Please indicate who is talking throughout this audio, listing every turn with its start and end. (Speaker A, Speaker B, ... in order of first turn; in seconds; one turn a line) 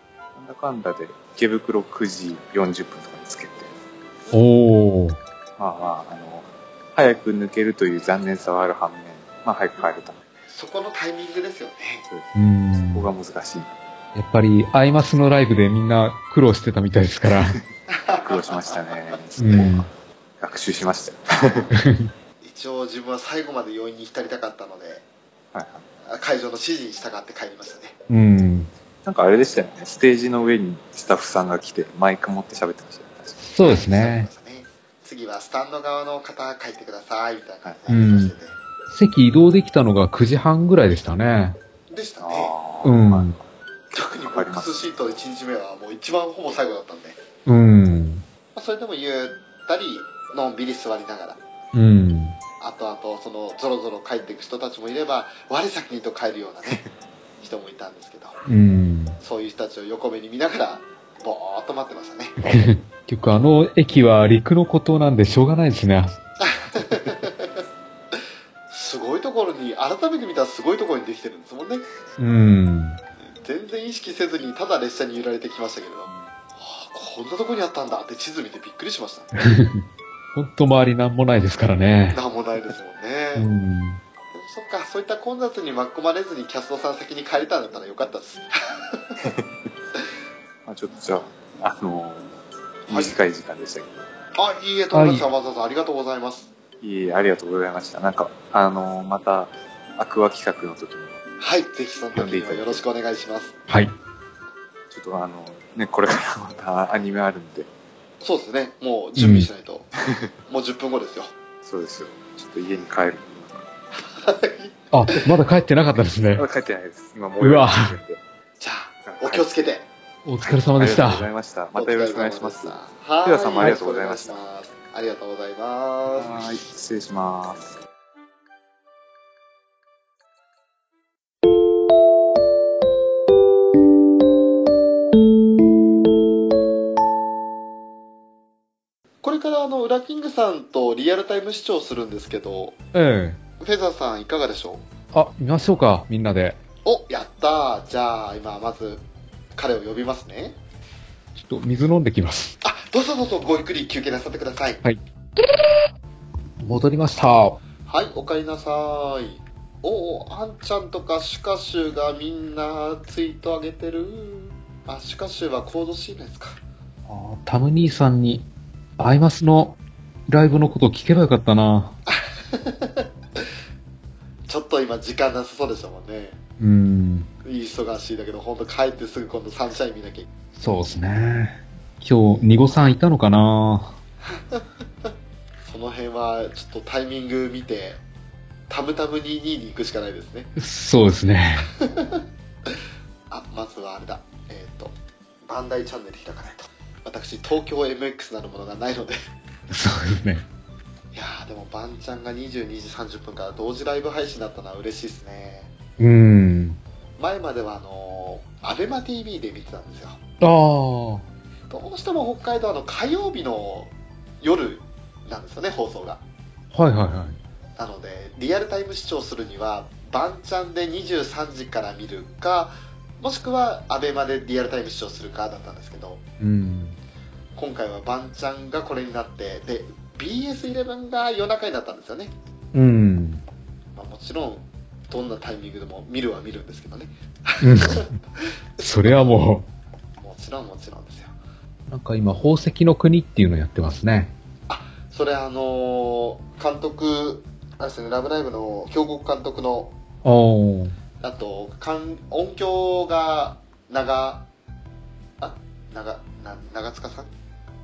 Speaker A: 0.3-3.7
Speaker B: 4.3-5.2
Speaker A: 5.6-10.2
Speaker C: 10.5-12.0
Speaker A: 12.1-13.7
Speaker B: 12.3-13.1
Speaker B: 14.1-17.6
Speaker C: 17.9-18.7
Speaker A: 18.2-19.9
Speaker B: 19.4-19.9
Speaker A: 20.4-21.7
Speaker B: 21.7-22.1
Speaker C: 22.4-25.0
Speaker A: 25.5-25.9
Speaker C: 26.0-27.9
Speaker B: 28.1-28.7
Speaker A: 29.0-33.4
Speaker B: 33.4-34.3
Speaker C: 33.6-38.5
Speaker B: 37.9-38.3
Speaker B: 38.9-41.6
Speaker C: 41.9-42.5
Speaker A: 42.2-44.8
Speaker B: 42.8-43.4
Speaker C: 43.9-47.2
Speaker B: 47.5-48.2
Speaker C: 48.5-51.4
Speaker B: 51.7-52.4
Speaker C: 52.6-56.8
Speaker C: 57.4-58.4
Speaker B: 58.5-59.2
Speaker C: 59.2-62.4
Speaker B: 62.4-66.2
Speaker C: 66.4-67.6
Speaker C: 68.7-71.8
Speaker B: 72.2-73.0
Speaker C: 73.2-79.3
Speaker B: 79.3-82.2
Speaker C: 82.1-83.5
Speaker B: 83.3-84.0
Speaker C: 84.3-89.2
Speaker A: 90.7-92.3
Speaker A: 92.9-94.0
Speaker C: 92.9-93.1
Speaker C: 94.3-96.5
Speaker B: 94.9-95.3
Speaker A: 96.8-101.2
Speaker C: 101.4-103.5
Speaker A: 102.1-102.8
Speaker B: 103.7-103.9
Speaker A: 104.9-107.7
Speaker C: 108.2-109.9
Speaker B: 109.2-109.5
Speaker C: 110.5-111.3
Speaker A: 111.6-113.7
Speaker C: 114.1-115.3
Speaker B: 114.9-116.5
Speaker A: 116.3-118.2
Speaker B: 117.4-118.0
Speaker C: 118.6-119.9
Speaker A: 119.0-119.4
Speaker B: 120.2-121.3
Speaker A: 120.4-124.4
Speaker C: 121.7-126.5
Speaker A: 126.2-127.8
Speaker C: 139.2-142.8
Speaker B: 142.9-143.4
Speaker C: 143.6-144.8
Speaker B: 145.1-146.6
Speaker C: 146.8-149.0
Speaker C: 149.6-150.6
Speaker B: 151.3-152.6
Speaker C: 152.6-154.8
Speaker B: 156.6-157.6
Speaker C: 157.9-166.6
Speaker B: 167.1-168.4
Speaker B: 169.0-171.9
Speaker C: 172.1-173.1
Speaker C: 174.5-176.4
Speaker B: 176.6-177.3
Speaker C: 177.4-180.3
Speaker B: 180.6-183.9
Speaker C: 184.2-184.7
Speaker C: 185.6-188.0
Speaker C: 188.7-190.5
Speaker B: 190.6-191.7
Speaker C: 191.8-192.2
Speaker C: 193.3-194.9
Speaker C: 195.4-199.2
Speaker B: 199.7-200.4
Speaker C: 201.1-205.7
Speaker B: 206.0-206.8
Speaker C: 207.2-210.2
Speaker B: 210.4-211.2
Speaker C: 211.7-216.2
Speaker B: 216.7-217.4
Speaker C: 217.8-226.2
Speaker B: 226.4-227.0
Speaker C: 227.6-232.3
Speaker B: 232.7-233.4
Speaker C: 233.9-238.8
Speaker B: 237.6-238.1
Speaker B: 238.8-239.7
Speaker C: 240.2-241.3
Speaker B: 241.9-244.3
Speaker C: 244.7-249.9
Speaker B: 250.2-250.9
Speaker C: 251.2-254.4
Speaker C: 255.4-257.3